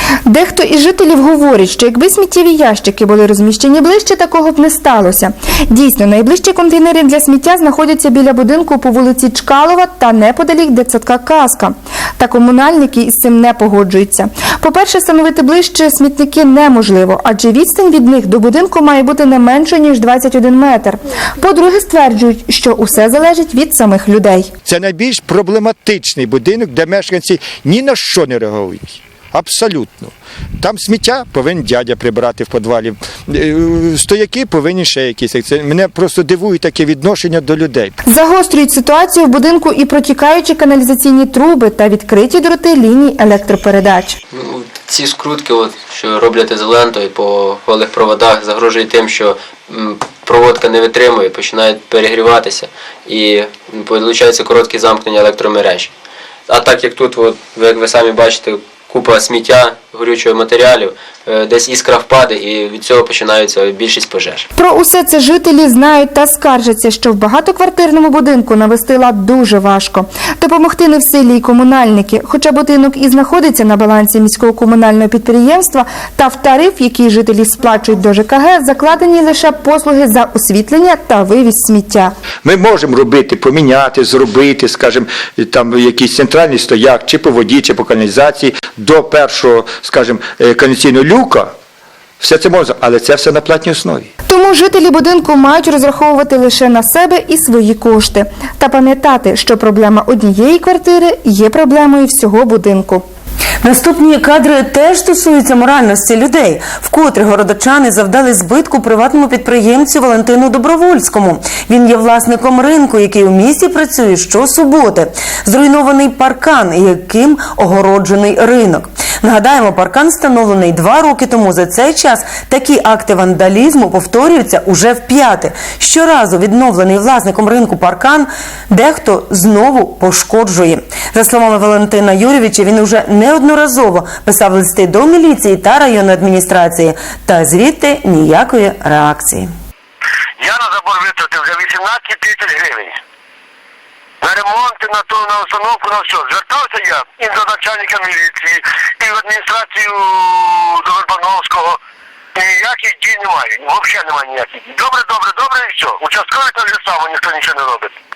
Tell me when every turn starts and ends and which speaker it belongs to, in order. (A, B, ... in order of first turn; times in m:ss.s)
0:00.3-0:24.5 A
0:24.7-0:37.9 B
0:38.1-0:44.2 A
0:44.3-0:55.9 C
0:56.5-1:04.4 C
1:04.6-1:22.1 A
1:22.4-1:31.5 B
1:32.2-1:34.1 B
1:34.3-1:43.0 A
1:43.6-2:19.5 D
2:20.4-2:23.0 E
2:24.2-2:31.8 E
2:32.4-2:37.9 E